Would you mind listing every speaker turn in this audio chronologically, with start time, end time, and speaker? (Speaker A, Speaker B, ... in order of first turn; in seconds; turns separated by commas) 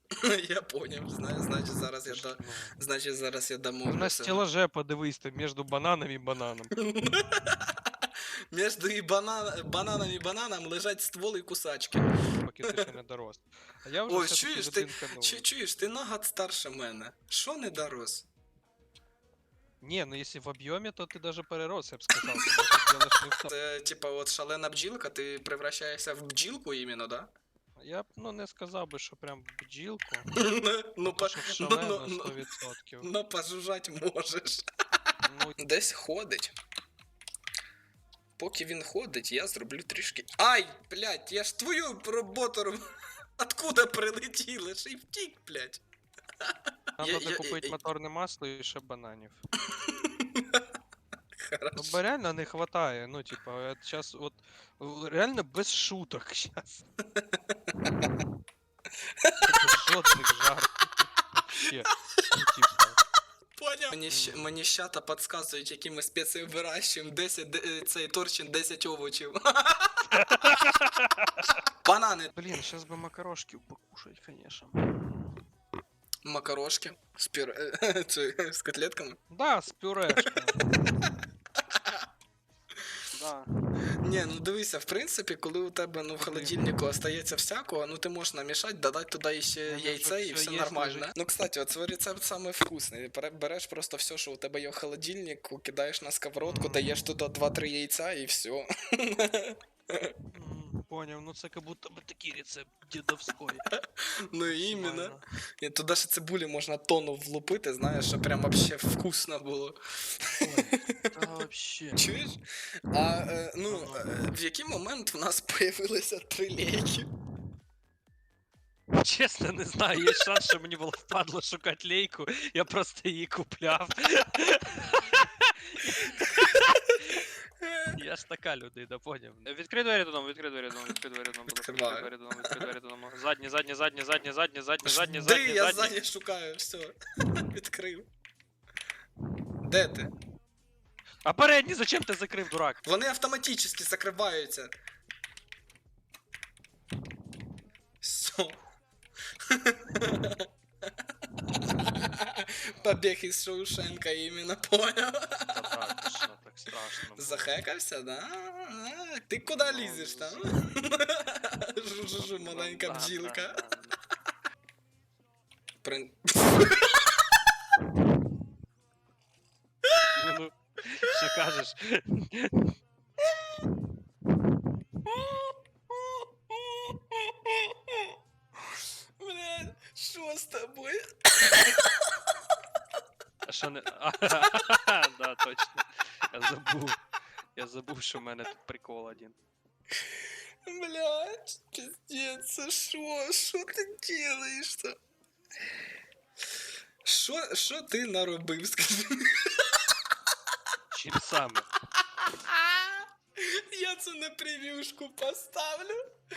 Speaker A: 0.2-4.4, Speaker B: 2.0-2.7, Speaker B: 3.8-6.7, Speaker A: 6.8-12.2, Speaker B: 12.2-15.4, Speaker A: 14.1-18.3, Speaker B: 19.8-23.5, Speaker A: 22.1-22.7, Speaker A: 23.4-27.3, Speaker B: 27.8-30.3, Speaker A: 30.4-32.3, Speaker B: 31.0-33.1, Speaker A: 33.0-34.6, Speaker B: 35.2-35.6, Speaker A: 35.6-36.5, Speaker A: 38.4-42.8, Speaker A: 43.4-45.8, Speaker A: 46.5-47.7, Speaker B: 47.0-49.4, Speaker A: 49.7-50.6, Speaker A: 51.4-52.0, Speaker B: 51.7-56.8, Speaker A: 57.1-58.1, Speaker A: 59.2-59.6, Speaker B: 59.5-63.0, Speaker A: 63.6-70.5, Speaker B: 64.1-64.5, Speaker B: 70.1-71.6, Speaker A: 71.8-72.3, Speaker B: 72.3-75.4, Speaker A: 76.2-79.2, Speaker B: 79.3-80.6, Speaker A: 80.2-81.1, Speaker A: 81.7-82.0, Speaker B: 83.1-83.5, Speaker A: 84.0-100.1, Speaker B: 86.2-86.7, Speaker B: 89.7-91.1, Speaker B: 96.4-96.9, Speaker B: 100.3-103.6, Speaker A: 103.7-111.2, Speaker B: 104.5-105.2, Speaker B: 110.4-112.1, Speaker A: 112.0-117.1, Speaker B: 113.7-114.1, Speaker B: 118.9-127.2, Speaker A: 127.6-128.0, Speaker B: 127.9-136.0, Speaker A: 131.5-132.7, Speaker A: 134.8-138.1, Speaker A: 139.6-140.1, Speaker B: 141.2-142.8, Speaker A: 142.8-144.7, Speaker A: 148.0-148.6, Speaker A: 149.4-150.5, Speaker A: 151.4-155.7, Speaker B: 155.5-157.6, Speaker A: 157.2-163.6, Speaker B: 159.5-160.5, Speaker B: 162.0-163.9, Speaker A: 165.8-167.1, Speaker B: 170.1-172.7, Speaker A: 175.0-178.1, Speaker A: 179.2-182.1, Speaker B: 183.4-187.0, Speaker B: 187.6-189.4, Speaker A: 190.0-194.9, Speaker A: 197.0-199.7, Speaker B: 200.9-201.7, Speaker A: 202.2-205.9